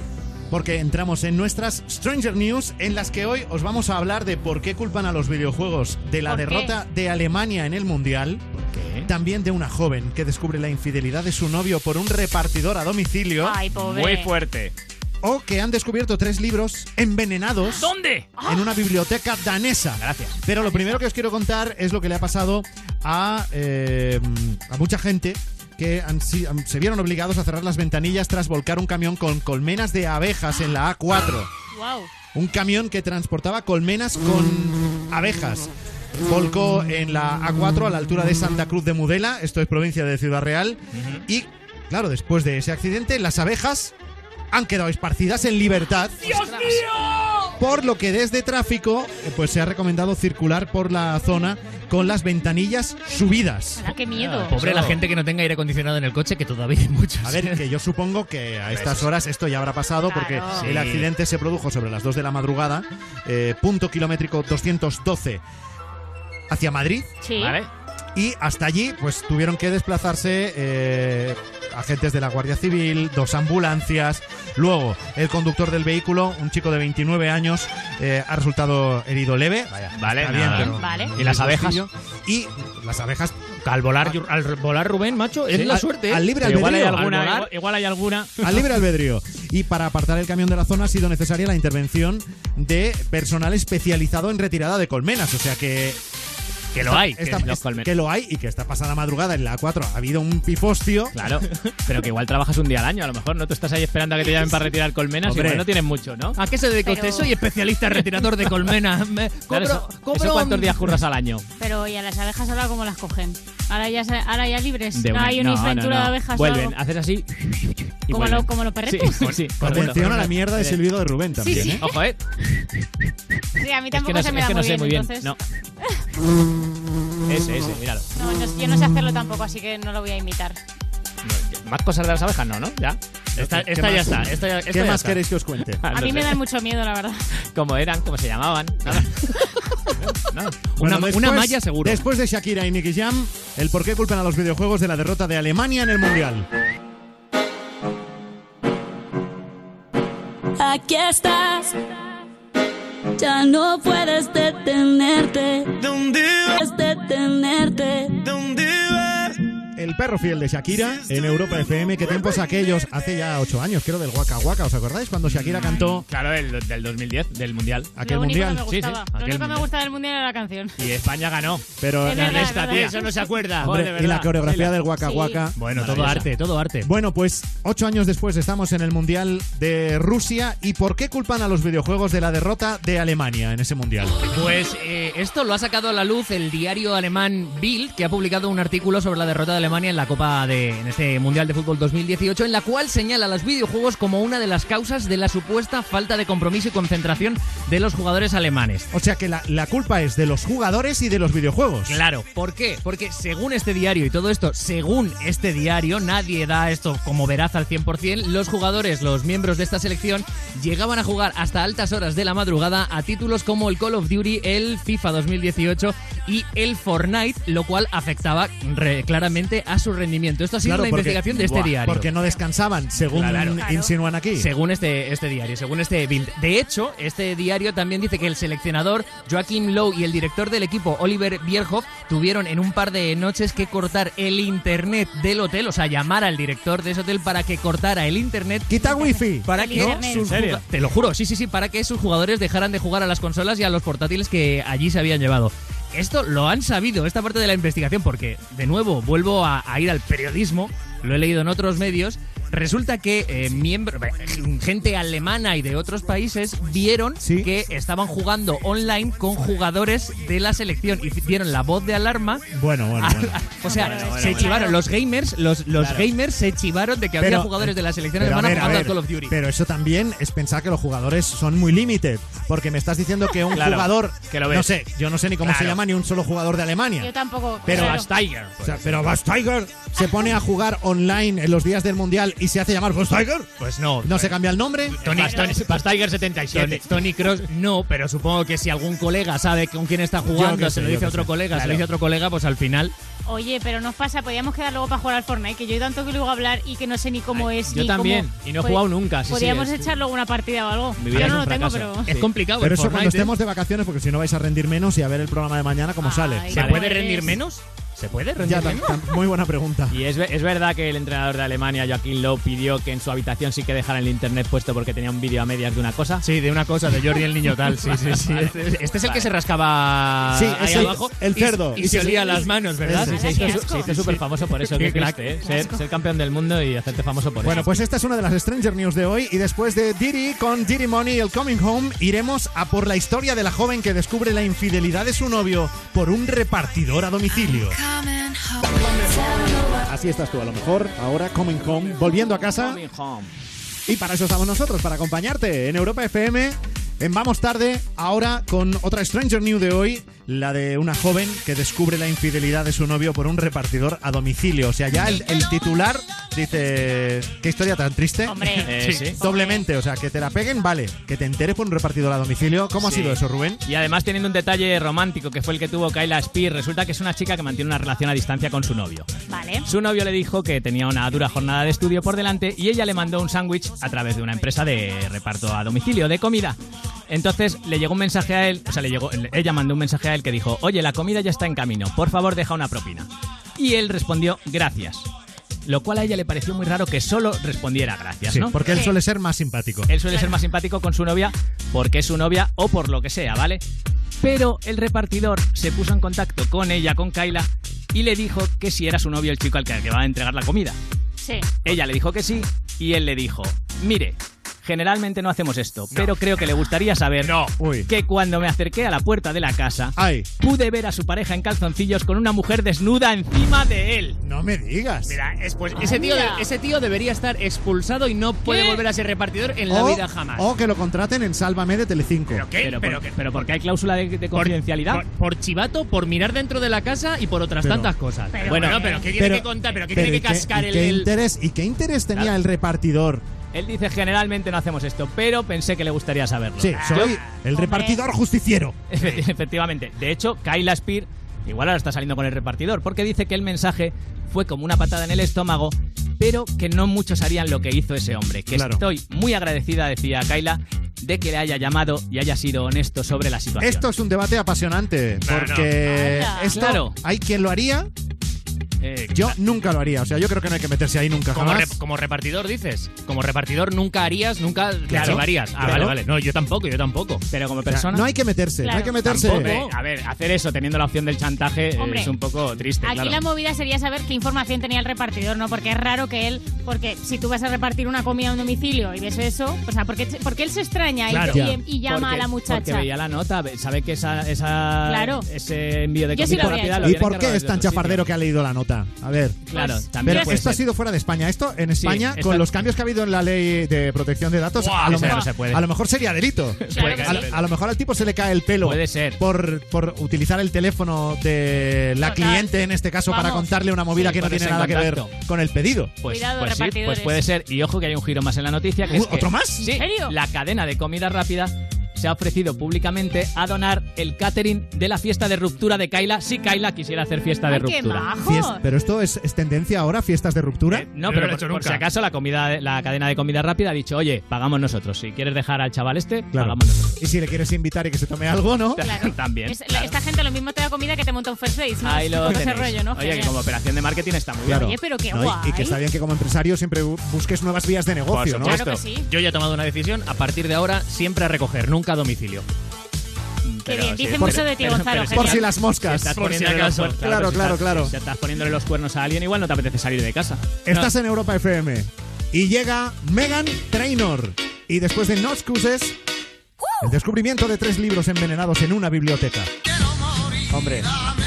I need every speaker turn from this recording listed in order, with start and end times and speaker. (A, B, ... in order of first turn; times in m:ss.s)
0:00.5-0:08.5 A
0:06.2-0:06.7 B
0:08.7-0:09.1 C
0:09.0-0:13.6 A
0:13.4-0:14.3 B
0:13.8-0:14.7 C
0:15.2-0:17.9 A
0:17.7-0:18.3 C
0:18.4-0:18.7 B
0:18.4-0:31.5 A
0:20.0-0:20.4 C
0:20.6-0:21.0 B
0:31.7-0:32.1 B
0:32.3-0:43.9 A
0:40.9-0:41.2 C
0:44.5-0:46.8 A
0:46.3-0:47.0 D
0:47.4-0:53.9 A
0:53.8-0:54.6 B
0:54.1-0:55.0 C
0:54.5-0:57.6 D
0:57.2-1:05.4 A
0:58.7-0:59.0 D
1:00.0-1:00.7 B
1:00.6-1:01.1 D
1:06.5-1:07.1 A
1:07.2-1:07.6 B
1:07.4-1:07.7 D
1:08.1-1:23.3 A
1:19.9-1:21.3 C
1:20.0-1:21.8 D
1:20.8-1:21.1 B
1:23.6-1:27.5 D
1:25.5-1:27.1 A
1:26.4-1:28.3 C
1:28.4-1:36.0 A
1:36.7-1:37.6 D
1:36.8-1:41.2 A
1:37.5-1:37.9 C
1:41.1-1:46.4 C
1:45.2-1:45.7 A
1:46.4-1:51.0 D
1:46.8-1:47.3 B
1:49.5-1:51.5 C
1:51.6-1:56.8 B
1:54.9-2:00.8 C
1:58.1-1:59.4 B
1:59.6-2:01.8 A
1:59.6-2:00.1 D
2:01.4-2:01.9 B
2:01.5-2:02.2 C
2:03.6-2:06.0 B
2:03.9-2:05.4 C
2:07.3-2:08.0 C
2:08.1-2:10.6 B
2:11.2-2:13.0 C
2:13.3-2:15.8 A
2:13.4-2:15.2 D
2:15.8-2:16.4 C
2:15.9-2:17.2 B
2:17.5-2:19.3 C
2:20.0-2:20.6 C
2:20.7-2:22.0 D
2:20.8-2:26.5 A
2:30.6-2:31.8 E
2:33.2-2:39.1 E
2:39.8-2:46.0 A
2:45.2-2:47.9 C
2:45.6-2:45.9 B
2:47.9-2:48.7 A
2:48.0-2:50.8 B
2:48.7-2:49.1 C
2:49.1-2:49.6 D
2:50.8-2:51.6 C
2:51.8-2:52.9 A
2:52.0-2:53.4 B
2:52.2-2:53.7 D
2:52.3-2:52.9 C
2:53.6-2:54.8 C
2:53.6-2:56.3 A
2:55.0-2:55.4 B
2:55.6-2:56.9 D
2:55.7-2:56.3 C
2:56.8-3:04.2 A
3:04.3-3:18.9 D
3:18.9-3:22.0 A
3:21.9-3:42.1 D
3:40.6-3:44.5 A
3:43.1-3:43.6 D
3:43.4-3:43.9 B
3:44.3-3:58.7 D
3:58.7-4:00.0 A
3:58.7-4:00.3 B
3:59.5-4:22.4 D
4:00.0-4:00.6 C
4:17.2-4:17.5 A
4:22.5-4:23.4 A
4:23.0-4:29.3 D
4:23.6-4:24.8 B
4:23.7-4:24.7 C
4:25.8-4:26.1 C
4:27.2-4:37.1 A
4:33.5-4:34.7 C
4:35.4-4:35.7 D
4:37.0-4:38.1 B
4:37.6-4:38.0 A
4:37.7-4:38.0 C
4:37.7-4:39.1 D
4:38.6-4:43.5 A
4:43.6-4:44.3 D
4:44.0-4:45.0 A
4:45.0-4:52.9 D
4:45.0-4:46.8 C
4:45.1-4:45.5 B
4:50.3-4:51.9 A
4:53.2-5:02.1 B
4:57.3-4:59.9 C
5:01.0-5:02.3 C
5:02.1-5:03.3 D
5:02.6-5:06.6 A
5:06.0-5:07.4 B
5:06.5-5:09.0 D
5:06.5-5:06.9 C
5:08.4-5:10.0 A
5:09.9-5:16.2 C
5:16.2-5:25.3 D
5:17.9-5:19.3 C
5:20.3-5:23.2 A
5:23.0-5:24.0 B
5:23.2-5:27.7 C
5:25.4-5:25.8 B
5:27.4-5:37.9 A
5:39.7-5:42.8 A
5:42.5-5:43.3 C
5:43.9-6:03.6 A
5:58.2-5:59.6 B
5:58.6-5:59.2 C
5:58.8-5:59.1 D
6:02.8-6:09.1 C
6:09.3-6:09.7 B
6:09.6-6:16.6 C
6:17.1-6:25.1 C
6:25.6-6:28.8 C
6:28.3-6:29.9 A
6:29.9-6:33.6 C
6:34.2-6:40.8 C
6:41.2-6:41.5 B
6:41.6-6:47.3 C
6:47.2-6:47.5 D
6:47.6-6:47.9 A
6:47.9-6:54.2 C
6:50.0-6:50.3 A
6:54.2-6:55.2 A
6:55.1-7:00.4 D
6:55.7-6:56.5 B
6:58.4-6:58.8 B
6:59.7-7:02.4 A
7:02.3-7:03.5 D
7:02.6-7:05.0 C
7:04.3-7:11.1 D
7:07.6-7:07.9 A
7:08.3-7:09.1 B
7:08.4-7:09.0 C
7:09.1-7:13.2 A
7:13.5-7:17.2 C
7:16.6-7:18.8 A
7:16.8-7:17.1 D
7:17.5-7:18.0 B
7:18.9-7:33.9 C
7:28.5-7:28.8 A
7:33.6-7:37.9 A
7:35.2-7:35.7 D
7:35.8-7:36.6 B
7:36.5-7:37.0 C
7:38.8-7:39.3 D
7:38.9-7:39.2 C
7:39.1-7:41.8 A
7:41.3-7:47.2 D
7:44.9-7:45.9 C
7:44.9-7:45.9 A
7:47.3-7:48.0 C
7:47.7-7:49.6 A
7:48.6-7:49.0 B
7:49.0-7:53.2 C
7:49.1-7:49.7 D
7:51.8-7:52.1 B
7:52.8-8:02.9 B
8:01.1-8:08.1 C
8:01.3-8:01.6 A
8:04.8-8:05.2 B
8:06.1-8:07.0 B
8:06.2-8:09.4 A
8:09.5-8:10.6 C
8:09.5-8:10.5 B
8:10.0-8:26.0 A
8:11.8-8:12.5 C
8:14.5-8:15.6 C
8:14.9-8:15.3 B
8:16.6-8:17.4 C
8:16.7-8:17.3 B
8:18.6-8:19.2 C
8:22.0-8:22.5 B
8:23.1-8:23.5 B
8:23.9-8:25.1 C
8:26.0-8:38.1 C
8:26.0-8:27.2 B
8:28.8-8:29.6 A
8:29.6-8:30.1 B
8:37.5-8:38.6 B
8:38.2-8:40.9 A
8:40.7-8:46.9 C
8:41.0-8:41.8 D
8:46.3-8:48.8 A
8:48.8-8:49.9 C
8:48.8-8:53.4 B
8:51.8-8:54.7 C
8:54.4-8:58.6 A
8:54.5-8:55.8 B
8:58.1-8:58.6 C
8:58.3-9:02.4 D
8:58.4-8:59.1 B
9:03.4-9:10.9 C
9:03.6-9:05.5 B
9:04.2-9:04.5 A
9:05.1-9:06.2 A
9:06.1-9:07.0 D
9:07.0-9:07.9 A
9:10.6-9:16.0 A
9:16.8-9:19.5 A
9:20.5-9:20.8 A